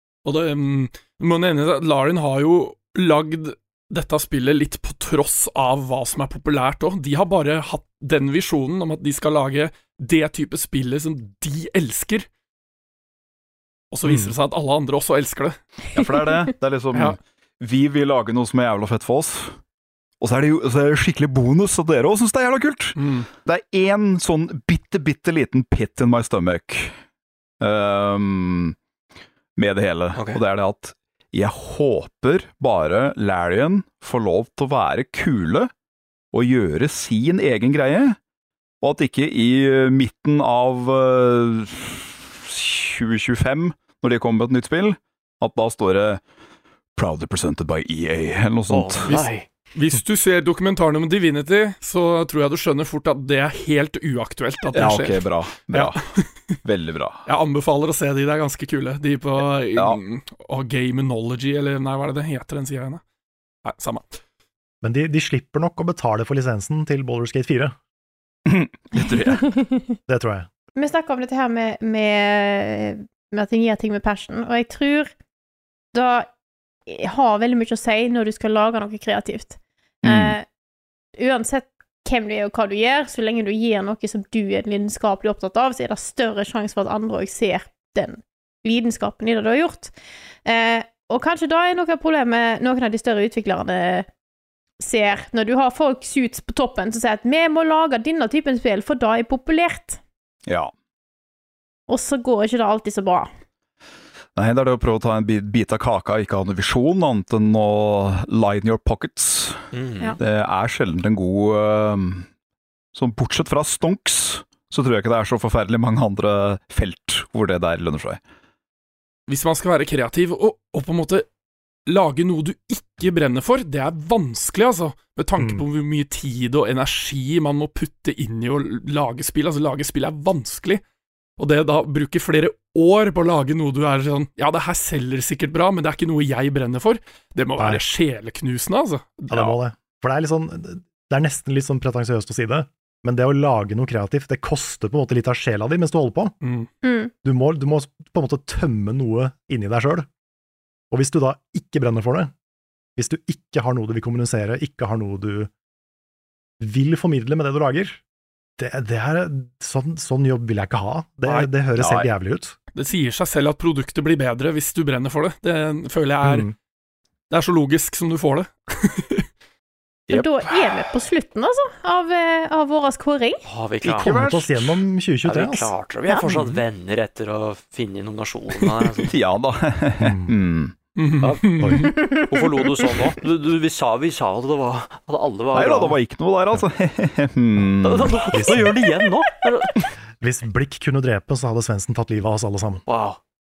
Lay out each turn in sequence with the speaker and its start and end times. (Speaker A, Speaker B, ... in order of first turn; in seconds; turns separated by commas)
Speaker A: 0.2-12.3, Speaker A: 13.9-15.6, Speaker B: 14.1-14.3, Speaker B: 15.9-19.6, Speaker B: 20.2-26.9, Speaker A: 22.9-23.3, Speaker B: 27.6-28.8, Speaker B: 29.6-35.7, Speaker C: 30.1-30.4, Speaker B: 36.3-38.2, Speaker B: 38.8-46.2, Speaker B: 47.0-49.1, Speaker C: 48.7-49.5, Speaker A: 49.0-56.5, Speaker B: 54.7-56.0, Speaker B: 56.6-57.2, Speaker A: 57.3-63.0, Speaker B: 59.7-60.0, Speaker A: 63.6-64.2, Speaker D: 64.8-67.7, Speaker B: 68.5-69.5, Speaker E: 69.5-69.9, Speaker D: 70.1-70.5, Speaker E: 70.8-75.1, Speaker E: 75.9-76.3, Speaker E: 76.9-80.4, Speaker B: 80.0-80.3, Speaker E: 81.2-89.9, Speaker E: 90.5-94.1, Speaker E: 94.8-100.0, Speaker B: 100.5-100.7, Speaker E: 101.9-103.3, Speaker B: 104.3-109.6, Speaker C: 109.7-110.1, Speaker B: 110.2-112.3, Speaker B: 112.9-118.2, Speaker A: 119.3-121.2, Speaker A: 121.9-130.8, Speaker D: 125.4-125.6, Speaker A: 131.4-139.5, Speaker D: 137.6-137.8, Speaker D: 139.3-146.3, Speaker A: 146.4-146.7, Speaker E: 146.8-147.1, Speaker D: 147.2-150.1, Speaker D: 150.9-152.3, Speaker D: 153.0-155.5, Speaker D: 156.6-158.0, Speaker D: 158.6-162.6, Speaker B: 161.8-162.1, Speaker A: 162.7-166.5, Speaker D: 166.2-166.5, Speaker A: 167.3-169.3, Speaker B: 170.1-170.5, Speaker E: 170.1-173.4, Speaker C: 173.4-174.1, Speaker B: 173.8-174.8, Speaker D: 173.9-175.7, Speaker C: 175.2-179.1, Speaker B: 179.1-180.7, Speaker D: 180.0-180.3, Speaker A: 180.9-181.9, Speaker C: 181.2-186.0, Speaker D: 181.6-181.9, Speaker E: 181.9-182.7, Speaker B: 185.5-188.2, Speaker C: 187.8-189.9, Speaker D: 188.3-188.9, Speaker D: 190.2-192.8, Speaker C: 192.9-193.2